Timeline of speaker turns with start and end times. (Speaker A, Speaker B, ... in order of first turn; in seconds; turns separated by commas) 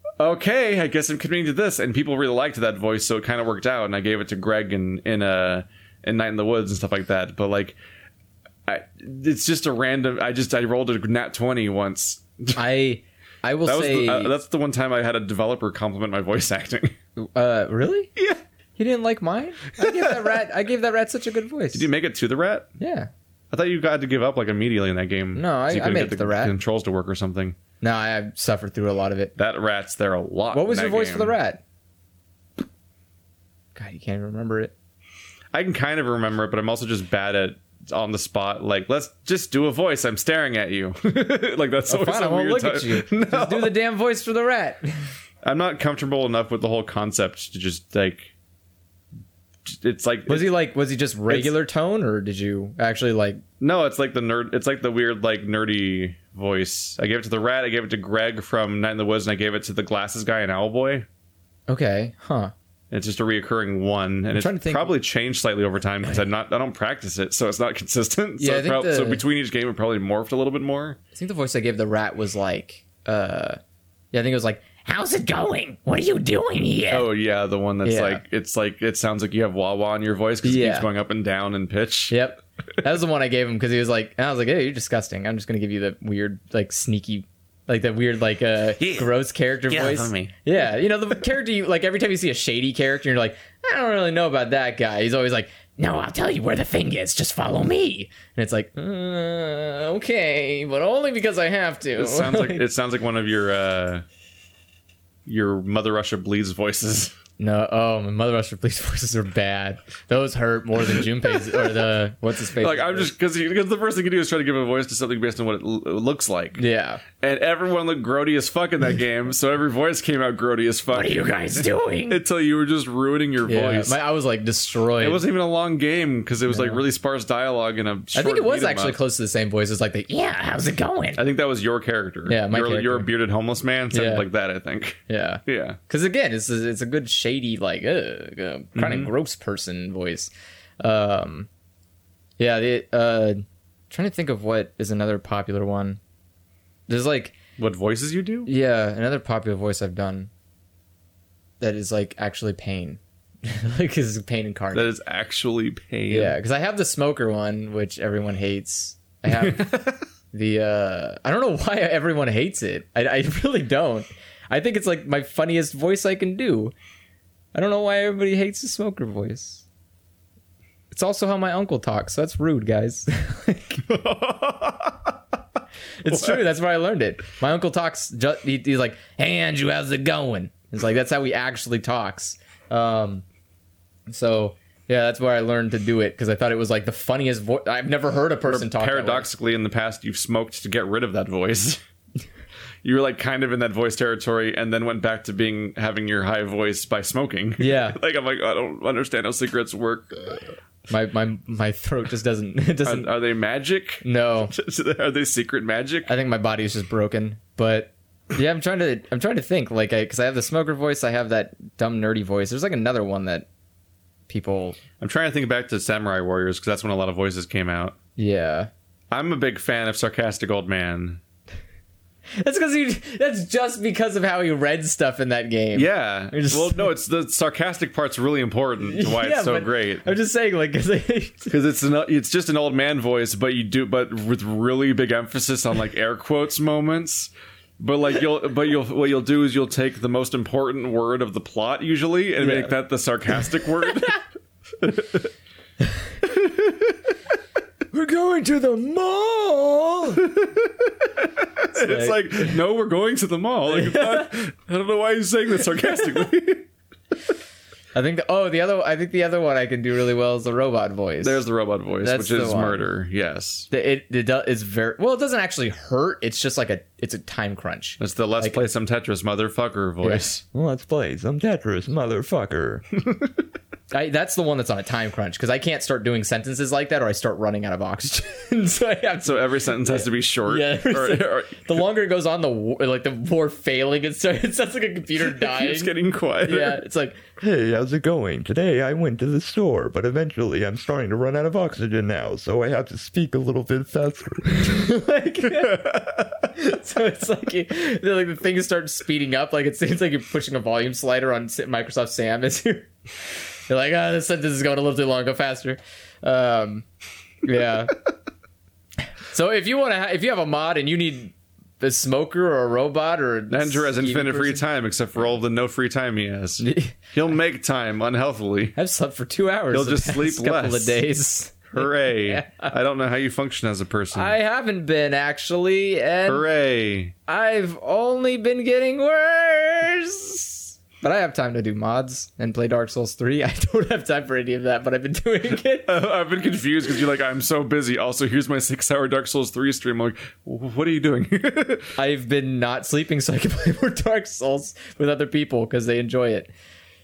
Speaker A: 0.2-7.8, Speaker A: 8.7-12.6, Speaker B: 12.6-14.3, Speaker A: 13.7-16.9, Speaker B: 17.2-18.1, Speaker B: 18.8-21.9, Speaker A: 19.8-20.3, Speaker A: 21.7-22.7, Speaker B: 22.8-23.1, Speaker A: 23.5-27.6, Speaker B: 25.4-26.6, Speaker B: 27.8-29.3, Speaker A: 29.4-31.4, Speaker B: 30.5-31.6, Speaker B: 33.8-34.7, Speaker A: 35.5-43.7, Speaker B: 41.9-45.1, Speaker A: 45.4-48.3, Speaker A: 49.7-50.5, Speaker B: 50.3-53.4, Speaker A: 51.3-51.5, Speaker A: 53.6-61.1, Speaker B: 61.7-62.5, Speaker A: 62.9-71.0, Speaker B: 64.3-64.9, Speaker B: 68.4-69.2, Speaker B: 71.2-73.6, Speaker B: 74.1-77.1, Speaker A: 76.9-82.2, Speaker B: 77.8-78.2, Speaker B: 80.4-80.9, Speaker B: 82.1-102.6, Speaker A: 88.8-89.1, Speaker A: 89.7-90.3, Speaker A: 102.0-104.0, Speaker A: 105.3-107.1, Speaker B: 107.4-113.1, Speaker A: 112.6-116.6, Speaker B: 116.6-117.0, Speaker A: 117.2-124.0, Speaker B: 120.9-122.2, Speaker B: 123.5-125.2, Speaker A: 125.0-129.0, Speaker B: 126.5-126.8, Speaker B: 128.1-131.2, Speaker A: 131.2-135.8, Speaker B: 132.3-133.1, Speaker B: 133.9-134.3, Speaker B: 135.1-141.5, Speaker A: 138.8-139.1, Speaker B: 142.4-146.0, Speaker B: 146.9-147.4, Speaker A: 147.6-148.5, Speaker B: 148.5-150.3, Speaker B: 151.6-154.9, Speaker A: 154.7-156.4, Speaker B: 156.1-159.7, Speaker A: 159.3-160.1, Speaker B: 160.3-166.7, Speaker B: 167.5-169.7, Speaker B: 170.9-173.8, Speaker A: 173.8-175.2, Speaker B: 176.0-183.2, Speaker A: 176.1-176.4, Speaker B: 184.1-189.3, Speaker A: 188.5-191.8, Speaker A: 192.8-200.4, Speaker B: 197.6-198.0, Speaker B: 200.9-203.1, Speaker A: 202.8-206.1, Speaker B: 204.0-204.5, Speaker B: 206.1-213.5, Speaker B: 214.3-214.8, Speaker A: 215.0-217.9, Speaker B: 218.2-218.7, Speaker A: 219.1-221.2, Speaker B: 222.4-226.9, Speaker A: 225.8-230.1, Speaker B: 228.8-231.5, Speaker A: 231.5-244.2, Speaker B: 242.4-242.7, Speaker B: 243.3-244.1, Speaker A: 244.8-245.3, Speaker A: 246.3-246.7, Speaker B: 247.9-250.2, Speaker A: 250.2-250.7, Speaker A: 251.6-256.7, Speaker B: 251.7-252.6, Speaker B: 253.7-254.3, Speaker B: 257.9-261.4, Speaker A: 261.2-263.7, Speaker B: 262.0-262.9, Speaker B: 263.7-268.6, Speaker A: 268.0-270.4, Speaker C: 270.5-272.9, Speaker B: 273.9-287.2, Speaker A: 279.2-281.8, Speaker A: 285.2-286.8, Speaker C: 287.4-294.8, Speaker B: 294.6-306.9, Speaker A: 295.6-296.3, Speaker B: 307.4-307.9, Speaker B: 309.3-314.6, Speaker A: 313.5-318.8, Speaker B: 316.6-317.0, Speaker B: 318.8-322.7, Speaker A: 319.7-321.0, Speaker A: 321.7-324.4, Speaker B: 324.1-326.4, Speaker A: 326.3-327.1, Speaker B: 327.3-335.9, Speaker A: 335.8-342.0, Speaker B: 342.0-346.5